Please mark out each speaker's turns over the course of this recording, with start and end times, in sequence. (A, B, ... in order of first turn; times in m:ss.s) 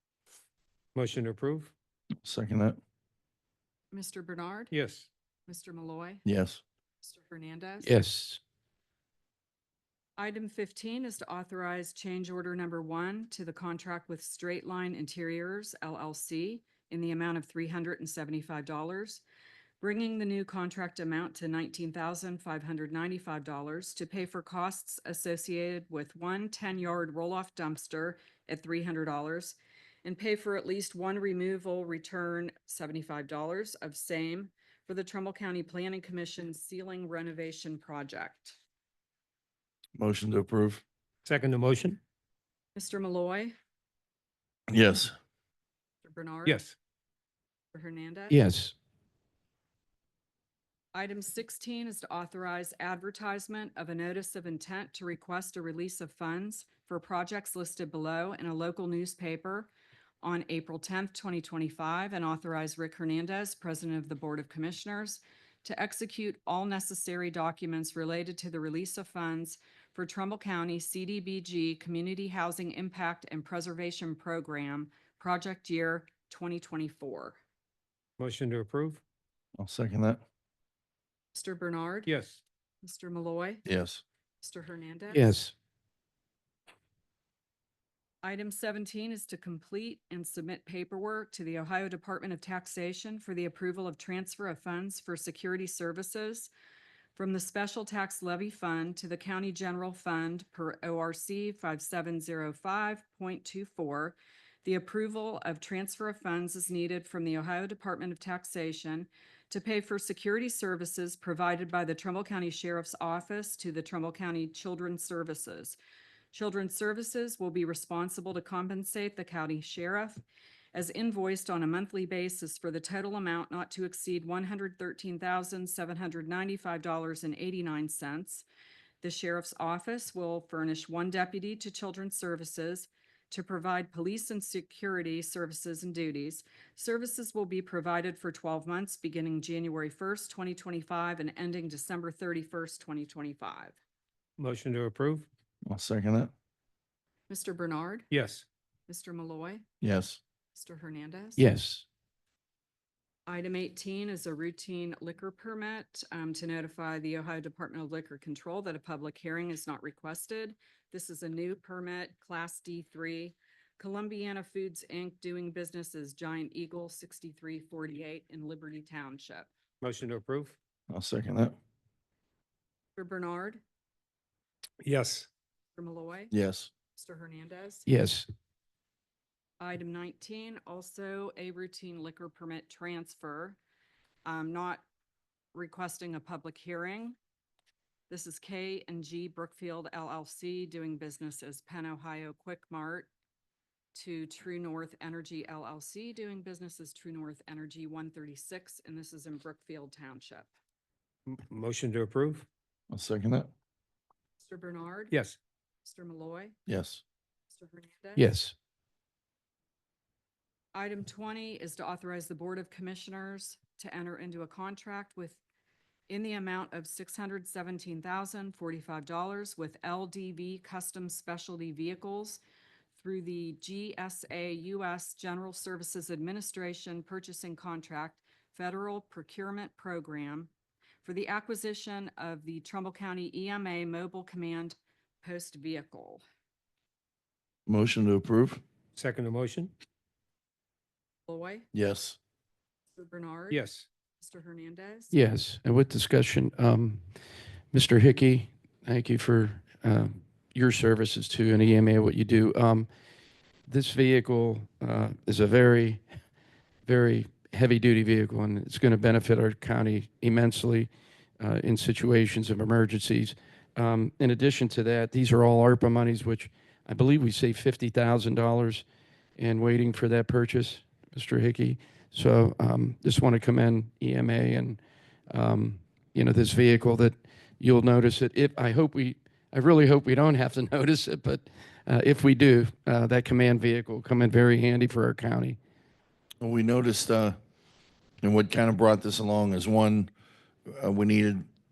0:00.9-0:01.7 A
0:02.2-0:02.8 B
0:03.9-0:04.7 C
0:04.7-0:05.1 A
0:05.5-0:06.2 C
0:06.2-0:06.6 B
0:07.0-0:07.9 C
0:07.8-0:08.4 D
0:10.2-0:19.2 C
0:19.8-0:38.6 C
0:40.0-0:40.8 B
0:41.2-0:42.0 A
0:42.7-0:43.5 C
0:44.7-0:45.1 B
0:46.0-0:46.6 C
0:46.4-0:46.7 A
0:47.7-0:48.4 C
0:48.3-0:48.7 D
0:50.9-0:59.7 C
1:00.2-1:17.4 C
1:18.2-1:19.0 A
1:19.6-1:20.2 B
1:21.3-1:22.1 C
1:22.0-1:22.4 A
1:22.8-1:23.6 C
1:23.6-1:24.0 B
1:24.4-1:25.4 C
1:25.1-1:25.5 D
1:28.2-1:36.5 C
1:37.2-1:55.8 C
1:56.3-2:00.2 C
2:00.7-2:08.4 C
2:09.0-2:23.8 C
2:24.4-2:25.3 A
2:25.6-2:26.3 B
2:27.3-2:28.1 C
2:28.1-2:28.4 A
2:28.9-2:29.6 C
2:29.8-2:30.2 B
2:30.5-2:31.4 C
2:31.4-2:31.8 D
2:33.3-2:49.5 C
2:49.8-2:50.6 A
2:50.9-2:51.6 B
2:53.0-2:53.6 C
2:54.8-2:55.3 A
2:55.7-2:56.3 C
2:56.3-2:56.7 B
2:56.9-2:57.9 C
2:57.9-2:58.3 D
2:59.6-3:03.6 C
3:04.2-3:04.8 C
3:05.5-3:07.2 C
3:08.1-3:13.1 C
3:13.9-3:20.5 C
3:21.3-3:22.4 A
3:22.9-3:23.5 B
3:24.4-3:25.2 C
3:25.1-3:25.4 A
3:25.8-3:26.5 C
3:26.7-3:27.0 B
3:27.5-3:28.3 C
3:28.2-3:28.5 D
3:30.7-3:35.4 C
3:36.1-3:42.4 C
3:43.0-3:50.5 C
3:51.0-3:56.2 C
3:57.7-3:58.6 B
3:59.0-3:59.7 A
4:01.3-4:01.7 C
4:01.7-4:02.2 B
4:02.9-4:03.6 C
4:03.5-4:03.8 A
4:04.2-4:05.1 C
4:05.1-4:07.0 D
4:07.7-4:12.9 D
4:13.7-4:16.0 D
4:16.8-4:28.8 D
4:29.4-4:45.6 D
4:46.4-4:47.4 B
4:48.2-4:50.1 B
4:50.7-4:51.4 B